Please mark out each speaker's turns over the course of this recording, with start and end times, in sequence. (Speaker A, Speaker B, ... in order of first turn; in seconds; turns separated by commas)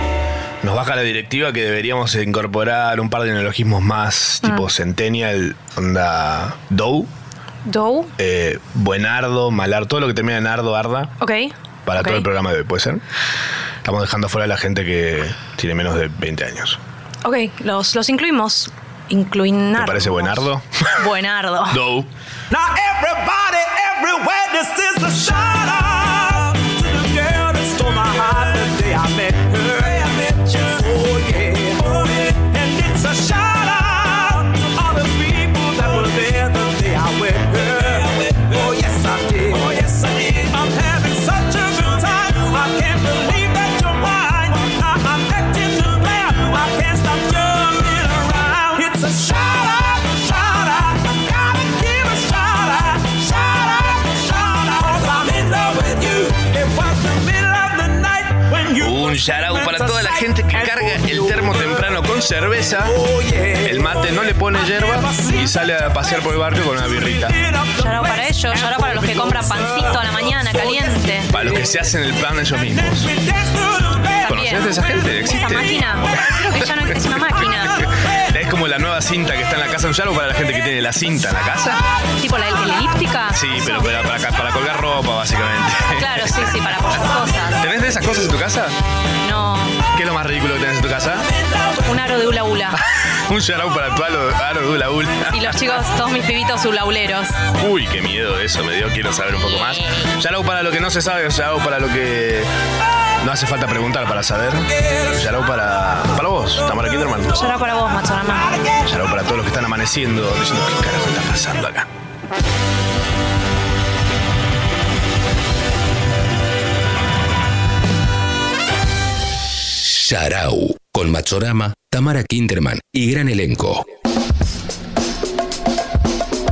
Speaker A: 0.6-7.1, Speaker B: 7.7-8.1, Speaker A: 8.2-11.1, Speaker B: 11.2-12.2, Speaker A: 11.8-13.0, Speaker A: 13.8-16.8, Speaker B: 17.2-21.8, Speaker A: 19.7-20.6, Speaker A: 21.7-22.1, Speaker C: 22.5-61.8, Speaker A: 58.8-63.0, Speaker C: 62.9-65.5, Speaker A: 63.6-67.3, Speaker C: 67.0-70.9, Speaker B: 67.8-71.3, Speaker A: 71.3-73.1, Speaker C: 72.9-74.3, Speaker B: 74.2-77.8, Speaker A: 74.2-75.8, Speaker A: 78.3-81.8, Speaker B: 82.2-84.1, Speaker A: 83.3-86.7, Speaker B: 86.0-87.6, Speaker A: 87.6-88.8, Speaker B: 89.2-89.8, Speaker A: 89.9-91.3, Speaker B: 91.8-92.8, Speaker A: 92.7-95.8, Speaker B: 95.3-97.4, Speaker A: 97.6-102.5, Speaker A: 103.2-107.5, Speaker B: 107.3-108.6, Speaker A: 108.9-111.9, Speaker D: 119.8-123.8